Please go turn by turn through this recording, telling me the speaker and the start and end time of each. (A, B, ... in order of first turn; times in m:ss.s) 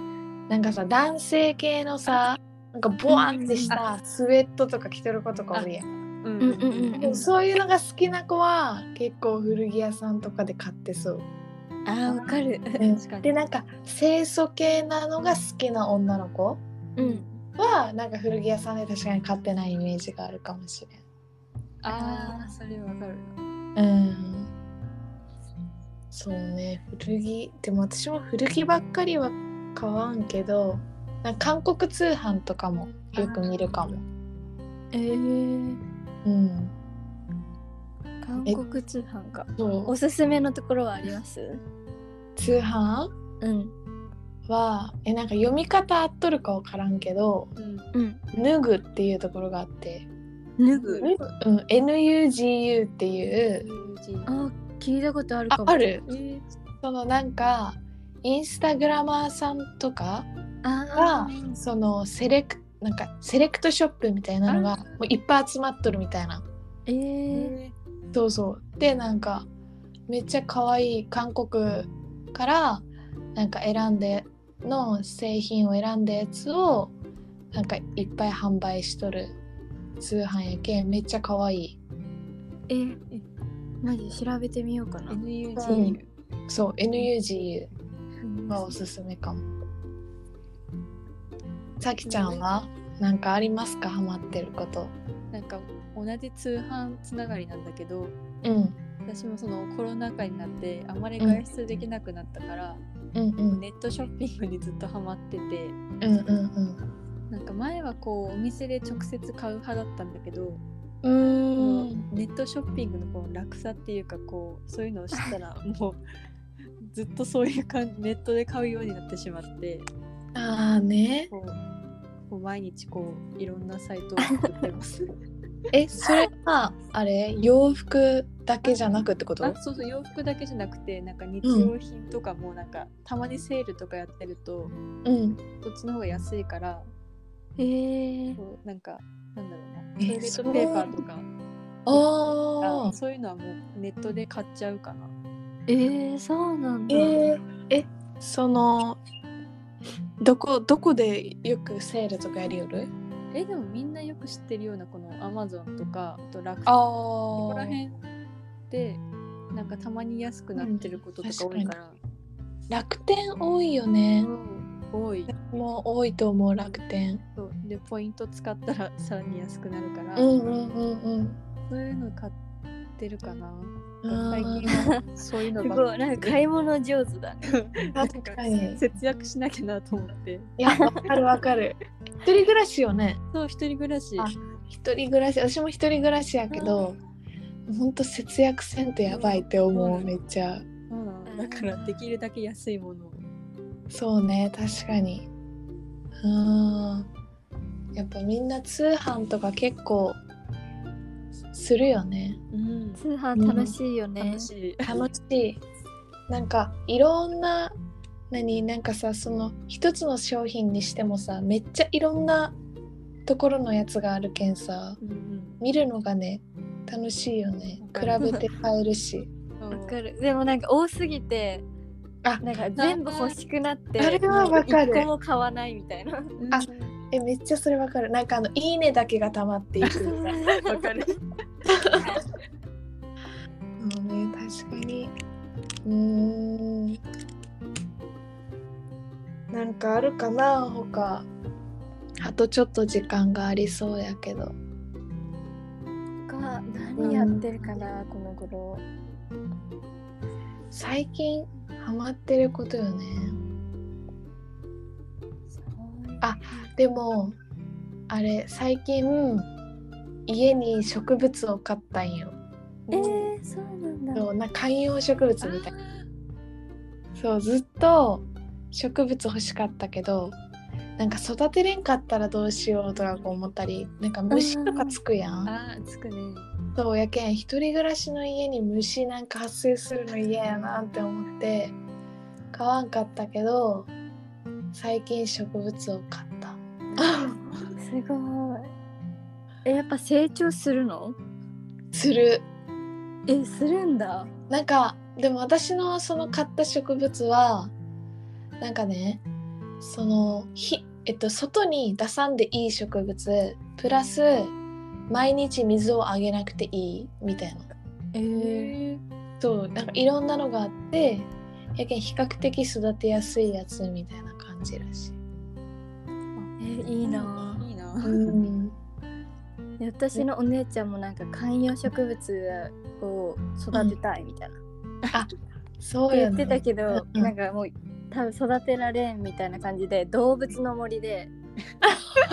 0:00.5-0:05.9 A
0:03.1-0:03.8 B
0:05.5-0:07.2 C
0:06.4-0:07.2 B
0:07.0-0:11.3 A
0:11.9-0:12.8 B
0:12.1-0:13.4 C
0:12.8-0:16.6 A
0:17.0-0:17.3 B
0:17.0-0:17.4 C
0:17.6-0:21.0 A
0:21.8-0:23.4 C
0:21.9-0:22.5 B
0:23.8-0:24.5 A
0:26.1-0:34.0 A
0:34.9-0:35.8 B
0:36.2-0:36.7 A
0:38.2-0:41.6 B
0:39.6-0:40.0 A
0:42.4-0:43.1 A
0:43.4-0:43.7 B
0:44.5-0:47.5 A
0:47.6-0:47.9 C
0:47.9-0:48.2 B
0:48.3-0:50.1 A
0:50.6-0:51.1 B
0:50.7-0:51.1 C
0:51.0-0:53.6 A
0:53.5-0:54.3 C
0:54.3-0:56.0 B
0:55.5-0:56.0 A
0:56.1-0:56.4 C
0:56.8-1:00.3 A
1:00.6-1:01.6 B
1:00.9-1:06.4 A
1:04.5-1:05.0 C
1:06.9-1:07.5 B
1:07.3-1:07.8 C
1:08.1-1:09.5 A
1:10.1-1:16.9 A
1:17.5-1:19.4 A
1:20.0-1:21.8 A
1:22.7-1:23.0 B
1:23.8-1:25.9 B
1:25.1-1:26.1 C
1:25.6-1:26.0 A
1:26.5-1:27.7 A
1:28.2-1:28.8 B
1:28.5-1:29.4 A
1:31.8-1:35.0 A
1:32.0-1:32.4 C
1:35.3-1:38.2 C
1:38.4-1:38.8 A
1:39.1-1:42.8 C
1:41.2-1:41.4 A
1:43.2-1:43.6 A
1:43.5-1:45.8 C
1:46.0-1:46.8 A
1:47.3-1:50.6 C
1:51.0-1:52.1 A
1:51.6-1:56.0 C
1:56.8-1:59.9 C
2:00.4-2:01.3 A
2:01.3-2:01.6 C
2:02.3-2:05.1 C
2:04.2-2:04.5 B
2:05.7-2:09.6 A
2:09.4-2:14.8 C
2:11.4-2:11.7 A
2:15.0-2:15.4 A
2:15.6-2:16.9 C
2:17.6-2:18.4 B
2:18.4-2:21.3 C
2:20.0-2:20.9 A
2:21.9-2:22.9 A
2:21.9-2:25.1 C
2:25.7-2:27.2 B
2:26.9-2:29.0 A
2:30.2-2:32.9 A
2:33.3-2:38.0 C
2:36.7-2:37.8 A
2:38.7-2:39.0 C
2:39.5-2:42.0 C
2:40.6-2:41.7 A
2:42.7-2:44.3 A
2:44.2-2:45.3 C
2:45.3-2:47.2 A
2:47.4-2:50.3 C
2:50.2-2:51.4 A
2:51.7-2:52.4 C
2:53.0-2:56.4 C
2:54.0-2:55.0 A
2:54.6-2:55.0 B
2:55.6-2:57.6 B
2:57.4-3:00.5 C
2:58.0-2:58.8 A
3:00.6-3:03.2 A
3:00.7-3:01.0 B
3:03.3-3:04.3 C
3:04.2-3:07.0 A
3:06.5-3:06.9 C
3:07.7-3:10.7 A
3:09.1-3:10.1 C
3:10.9-3:13.2 C
3:11.3-3:12.0 B
3:13.9-3:15.3 A
3:16.2-3:17.1 A
3:18.0-3:20.2 A
3:21.5-3:22.4 A
3:22.5-3:23.0 C
3:23.0-3:24.5 B
3:23.3-3:23.8 A
3:24.2-3:25.0 C
3:24.8-3:25.6 A
3:26.3-3:27.7 A
3:28.3-3:32.6 A
3:33.3-3:35.0 A
3:35.0-3:35.6 C
3:35.6-3:39.3 A
3:37.8-3:38.4 C
3:39.6-3:40.0 C
3:39.7-3:41.6 B
3:42.4-3:46.3 B
3:42.7-3:43.4 C
3:44.0-3:45.1 A
3:46.4-3:46.9 C
3:46.5-3:50.4 A
3:49.8-3:51.2 C
3:50.1-3:50.8 B
3:51.7-3:52.2 A
3:53.8-3:55.1 A
3:55.8-3:57.0 A
3:59.5-4:01.3 A
4:02.2-4:04.6 A
4:06.3-4:08.8 B
4:07.0-4:07.9 A
4:10.7-4:13.4 A
4:15.6-4:16.7 B
4:16.2-4:17.4 A
4:18.1-4:19.5 A
4:20.3-4:22.4 A
4:22.9-4:24.3 B
4:22.9-4:23.2 A
4:22.9-4:23.3 C
4:24.2-4:25.7 A
4:25.4-4:26.1 C
4:27.2-4:30.4 A
4:31.0-4:35.5 A
4:32.9-4:33.3 C
4:34.3-4:35.0 B
4:35.5-4:36.5 C
4:36.8-4:41.8 A
4:42.5-4:43.9 A
4:44.7-4:47.4 A
4:47.5-4:47.7 C
4:47.8-4:48.7 B
4:49.6-4:51.2 B
4:51.9-4:52.4 A
4:53.3-4:54.3 B
4:54.5-4:57.7 A
4:58.6-4:59.2 A
4:59.8-5:04.5 A
5:05.1-5:07.7 A
5:08.1-5:08.8 B
5:08.4-5:09.0 C
5:09.4-5:15.2 A
5:16.4-5:18.3 C
5:16.6-5:17.7 B
5:18.0-5:18.8 A
5:19.8-5:24.6 B
5:25.1-5:27.3 A
5:26.1-5:31.3 B